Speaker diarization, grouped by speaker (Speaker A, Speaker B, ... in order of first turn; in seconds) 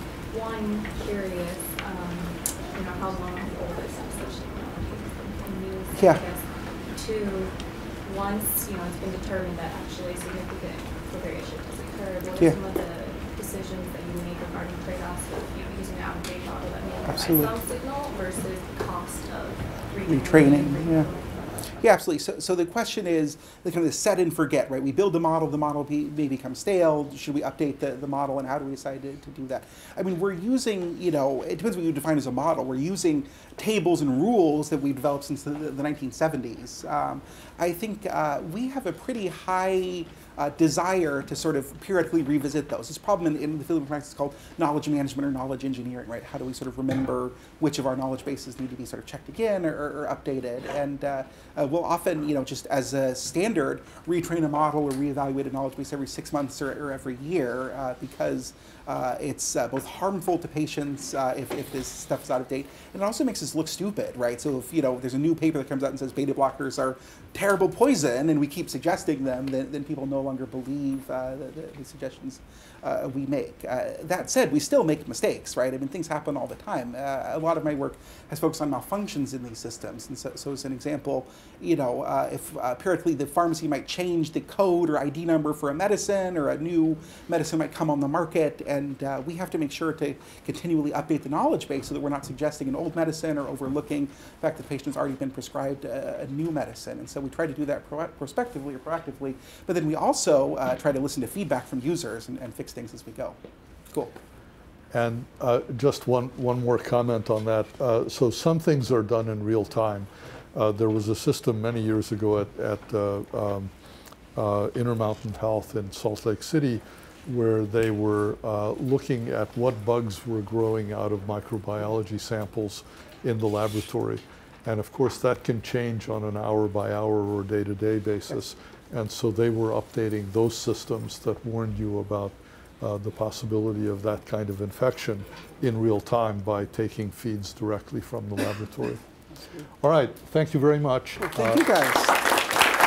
Speaker A: 0.3-21.8
Speaker B: 6.0-6.2, 17.1-17.5, 20.1-21.1, 21.8-103.4, 139.4-139.7, 141.2-142.4
Speaker C: 104.9-113.7, 114.3-139.0, 139.8-141.6